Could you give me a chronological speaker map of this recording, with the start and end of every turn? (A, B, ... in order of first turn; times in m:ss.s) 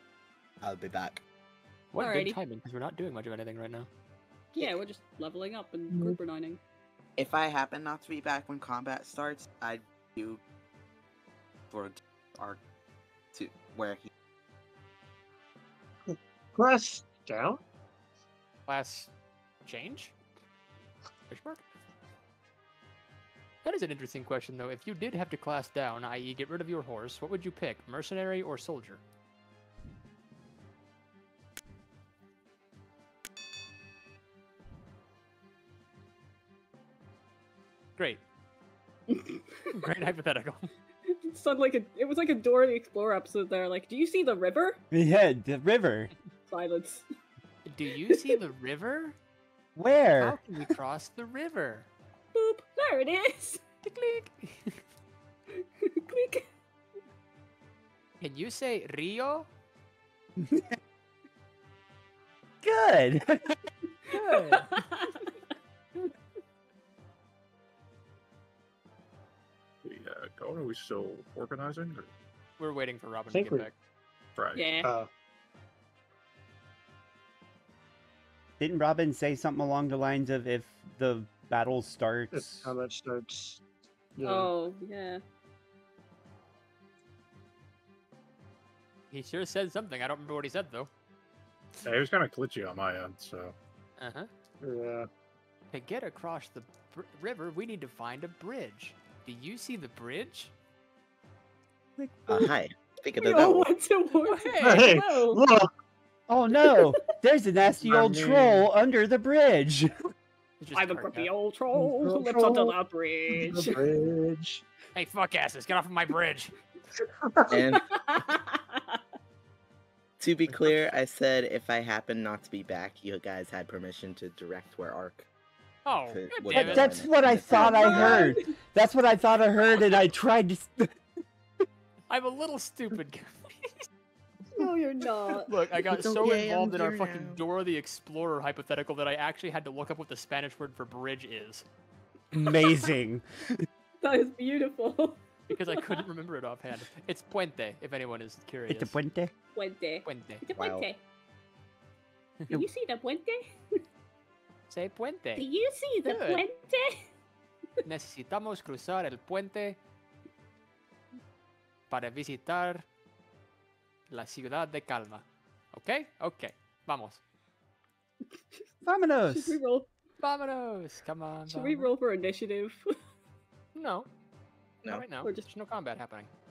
0:00.6-0:01.2 A
0:01.9-0:03.9 B
0:02.0-0:02.4 C
0:04.5-0:04.8 A
0:04.6-0:06.6 C
0:05.9-0:06.2 D
0:07.2-0:10.4 A
0:11.7-0:12.6 A
0:13.3-0:14.1 A
0:16.1-0:17.6 D
0:18.7-0:19.1 B
0:19.6-0:20.1 B
0:21.3-0:21.6 B
0:23.6-0:29.0 B
0:38.0-0:38.2 B
0:39.1-0:39.8 C
0:39.7-0:40.7 B
0:41.1-0:44.8 C
0:44.9-0:46.1 E
0:46.5-0:47.0 C
0:47.6-0:49.2 B
0:49.8-0:50.4 E
0:50.2-0:51.9 B
0:52.3-0:53.6 C
0:53.8-0:54.8 B
0:55.5-0:56.5 C
0:58.2-0:59.5 B
1:00.4-1:00.7 E
1:02.6-1:03.4 E
1:04.1-1:05.2 C
1:04.1-1:05.0 B
1:09.8-1:12.1 F
1:12.6-1:13.7 B
1:13.3-1:13.7 D
1:14.4-1:14.7 F
1:14.5-1:14.9 C
1:14.8-1:15.1 D
1:18.6-1:22.7 E
1:22.3-1:23.6 D
1:24.2-1:24.5 D
1:24.2-1:25.2 C
1:29.1-1:30.9 B
1:31.8-1:33.6 F
1:34.0-1:34.3 B
1:34.6-1:35.1 D
1:35.7-1:40.5 B
1:42.0-1:42.5 E
1:42.3-1:43.7 A
1:43.2-1:45.4 C
1:44.2-1:44.8 B
1:44.6-1:45.7 D
1:46.3-1:49.9 E
1:46.6-1:47.0 C
1:47.8-1:48.7 D
1:50.6-1:51.3 B
1:50.7-1:53.9 C
1:51.7-1:52.8 D
1:53.3-1:54.6 D
1:54.9-1:56.5 B
1:57.2-1:57.5 D
1:57.5-1:57.8 A
1:57.7-1:59.0 C
2:00.2-2:05.3 A
2:05.8-2:07.1 B
2:06.1-2:08.3 A
2:06.5-2:10.9 E
2:07.5-2:08.5 C
2:12.1-2:13.9 B
2:14.6-2:15.5 C
2:15.4-2:21.6 B
2:16.2-2:17.4 A
2:22.3-2:23.6 E
2:22.5-2:22.8 C
2:24.0-2:26.0 C
2:25.5-2:29.0 B
2:28.7-2:29.3 E
2:29.5-2:31.0 C
2:30.0-2:30.4 B
2:30.5-2:30.9 A
2:32.5-2:33.6 C
2:34.7-2:35.4 B
2:35.4-2:37.1 C
2:36.0-2:36.4 B
2:37.8-2:39.8 B
2:41.9-2:42.8 B
2:44.1-2:47.2 B
2:48.8-2:49.6 E
2:49.3-2:49.9 C
2:50.2-2:51.9 B
2:51.5-2:52.9 C
2:53.7-2:54.1 B
2:54.9-2:56.3 B
2:55.2-2:55.5 C